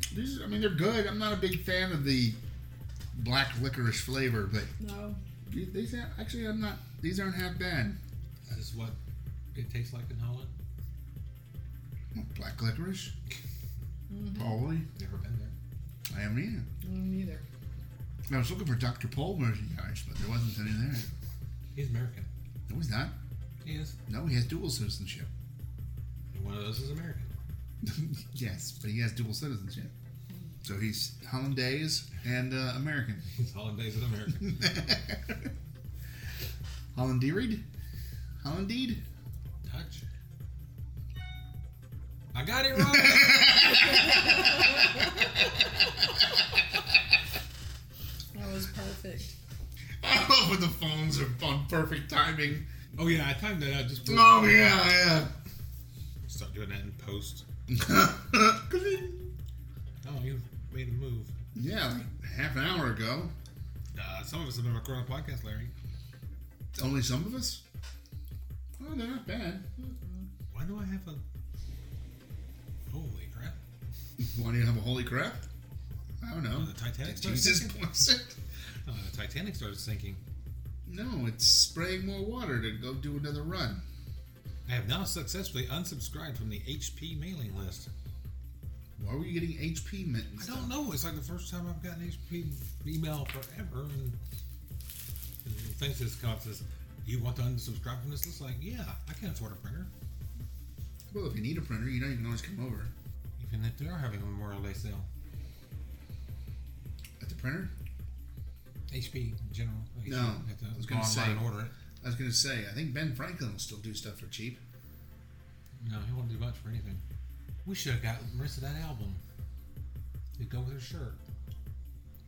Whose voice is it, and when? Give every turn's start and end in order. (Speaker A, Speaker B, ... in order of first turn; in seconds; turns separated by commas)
Speaker A: 0.1-2.4, Speaker A: 3.1-4.7, Speaker B: 4.8-5.2, Speaker A: 5.5-8.0, Speaker C: 8.5-9.0, Speaker C: 9.5-10.5, Speaker A: 12.2-13.1, Speaker B: 14.1-14.6, Speaker A: 14.4-14.9, Speaker C: 14.9-15.6, Speaker A: 16.1-16.7, Speaker B: 16.8-17.5, Speaker A: 18.3-21.1, Speaker C: 21.7-22.3, Speaker A: 22.7-23.1, Speaker C: 23.6-24.0, Speaker A: 24.1-25.3, Speaker C: 26.3-27.3, Speaker A: 27.8-29.9, Speaker A: 30.6-33.3, Speaker C: 33.3-34.7, Speaker A: 34.4-35.5, Speaker A: 36.9-37.6, Speaker A: 38.4-39.0, Speaker C: 39.6-40.0, Speaker C: 42.3-43.8, Speaker A: 42.8-46.6, Speaker B: 43.6-46.4, Speaker B: 48.3-49.3, Speaker A: 50.0-52.7, Speaker C: 53.0-55.0, Speaker A: 54.0-55.3, Speaker C: 56.2-57.5, Speaker A: 57.7-59.3, Speaker C: 60.0-61.4, Speaker A: 61.5-63.3, Speaker C: 64.0-65.7, Speaker A: 66.8-67.6, Speaker A: 68.8-69.7, Speaker B: 69.8-70.3, Speaker C: 70.5-71.2, Speaker C: 72.9-73.6, Speaker A: 74.2-75.4, Speaker A: 76.2-78.4, Speaker C: 76.5-77.8, Speaker C: 78.8-80.2, Speaker A: 80.9-83.8, Speaker C: 84.7-87.9, Speaker A: 89.0-90.7, Speaker C: 90.4-94.2, Speaker C: 95.4-99.9, Speaker A: 101.1-102.9, Speaker C: 103.4-105.1, Speaker A: 107.2-107.7, Speaker C: 108.9-111.7, Speaker A: 110.0-111.4, Speaker A: 112.0-114.6, Speaker C: 115.8-117.0, Speaker C: 117.7-119.2, Speaker C: 120.4-121.2